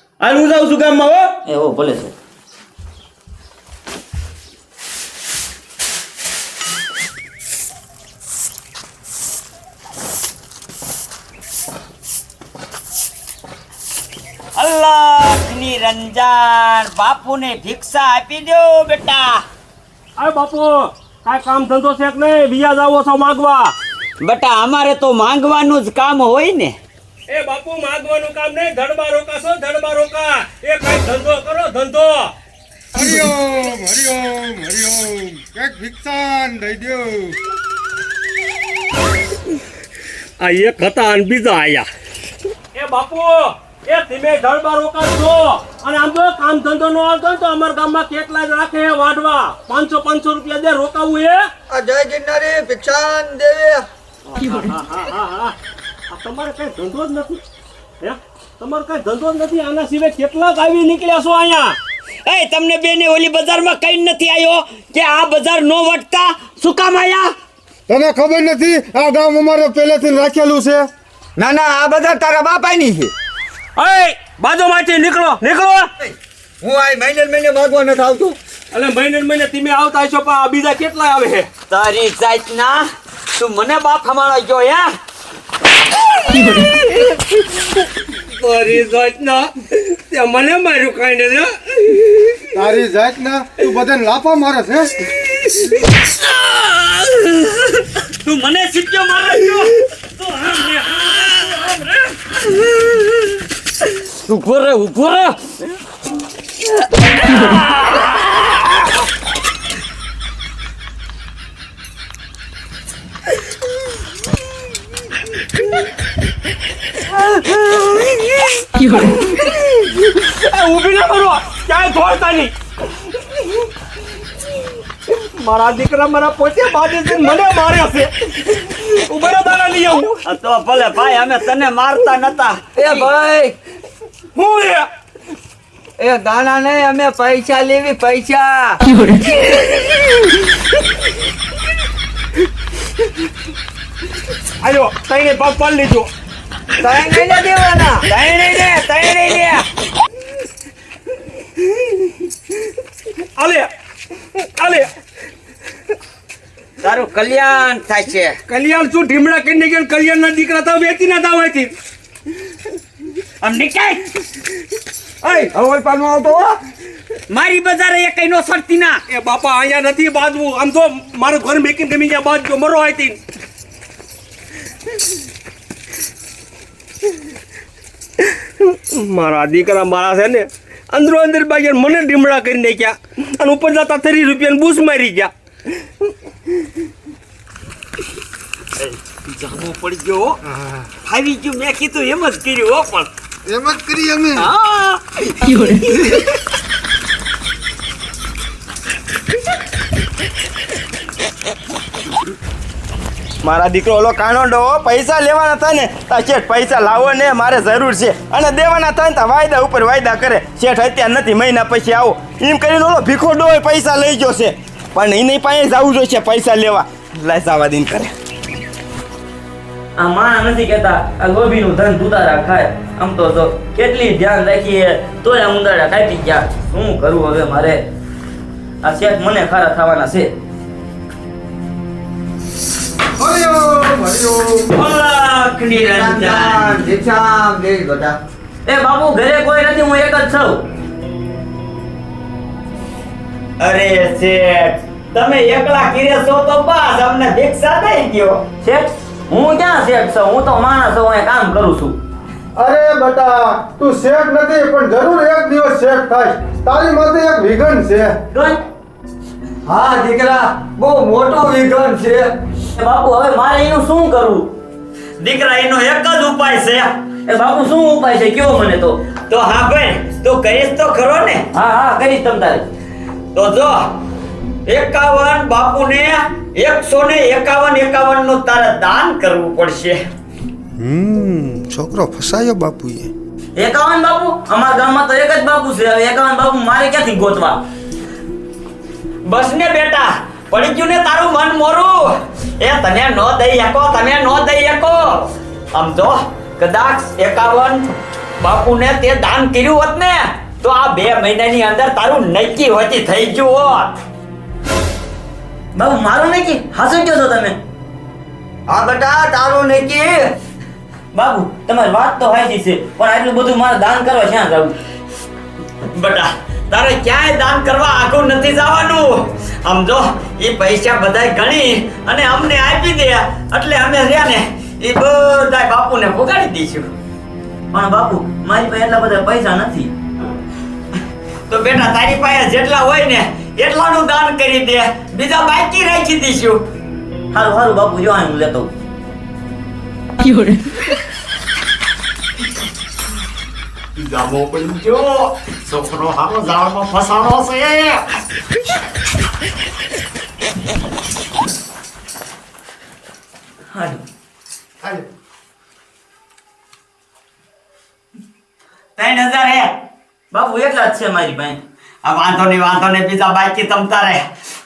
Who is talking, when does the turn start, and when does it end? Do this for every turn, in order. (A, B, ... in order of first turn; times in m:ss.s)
0:00.2-0:01.3 A
0:01.4-0:02.1 B
0:14.6-0:19.4 C
0:20.2-0:23.7 D
0:24.2-0:26.8 C
0:27.3-0:32.3 D
0:32.9-0:37.4 E
0:40.4-0:41.7 D
0:41.4-0:41.9 C
0:42.7-0:51.5 D
0:51.7-0:53.8 F
0:54.3-0:55.5 D
0:56.1-0:57.4 D
0:58.0-1:01.8 D
1:02.2-1:07.3 C
1:07.9-1:10.9 E
1:11.4-1:13.1 F
1:13.8-1:15.9 D
1:16.0-1:18.4 F
1:18.7-1:21.5 D
1:21.7-1:24.9 C
1:26.3-1:26.8 C
1:28.4-1:32.0 D
1:32.5-1:35.0 E
1:35.4-1:43.0 C
1:44.2-1:45.5 C
1:47.0-1:48.5 C
1:57.4-2:02.5 D
2:05.4-2:08.1 D
2:08.9-2:10.2 D
2:10.2-2:13.0 C
2:12.8-2:13.5 F
2:14.4-2:14.9 D
2:16.0-2:18.8 F
2:24.6-2:26.1 D
2:26.8-2:28.1 F
2:28.0-2:29.6 C
2:33.4-2:33.7 D
2:34.4-2:34.9 D
2:36.8-2:38.4 C
2:38.5-2:41.7 D
2:43.4-2:44.0 C
2:45.2-2:46.6 F
2:47.3-2:49.0 C
2:49.1-2:53.2 D
2:58.7-3:05.3 D
3:08.8-3:10.4 C
3:11.0-3:13.1 C
3:13.4-3:14.5 E
3:14.4-3:16.2 C
3:23.4-3:38.1 A
3:40.0-3:47.8 B
3:48.8-3:50.3 B
3:53.2-3:54.7 E
3:54.7-3:57.0 C
3:55.7-3:58.2 F
3:58.6-4:00.6 B
4:03.6-4:08.4 C
4:08.6-4:12.0 B
4:12.6-4:18.1 E
4:18.3-4:18.6 B
4:19.6-4:22.3 F
4:22.7-4:24.5 B
4:25.2-4:26.9 C
4:27.3-4:29.0 B
4:29.3-4:31.5 C
4:31.5-4:32.6 B
4:33.3-4:33.9 C
4:34.6-4:40.0 C
4:40.8-4:43.1 E
4:43.6-4:47.6 B
4:49.2-4:57.9 C
4:58.4-5:04.0 C
5:05.7-5:07.6 B
5:08.7-5:10.2 F
5:11.1-5:14.7 B
5:15.9-5:26.9 C
5:27.7-5:29.9 B
5:31.5-5:36.6 C
5:37.3-5:38.7 B
5:44.0-5:48.0 C
5:53.7-5:54.0 B
5:59.0-5:59.7 C
6:00.3-6:01.6 B
6:02.0-6:04.3 C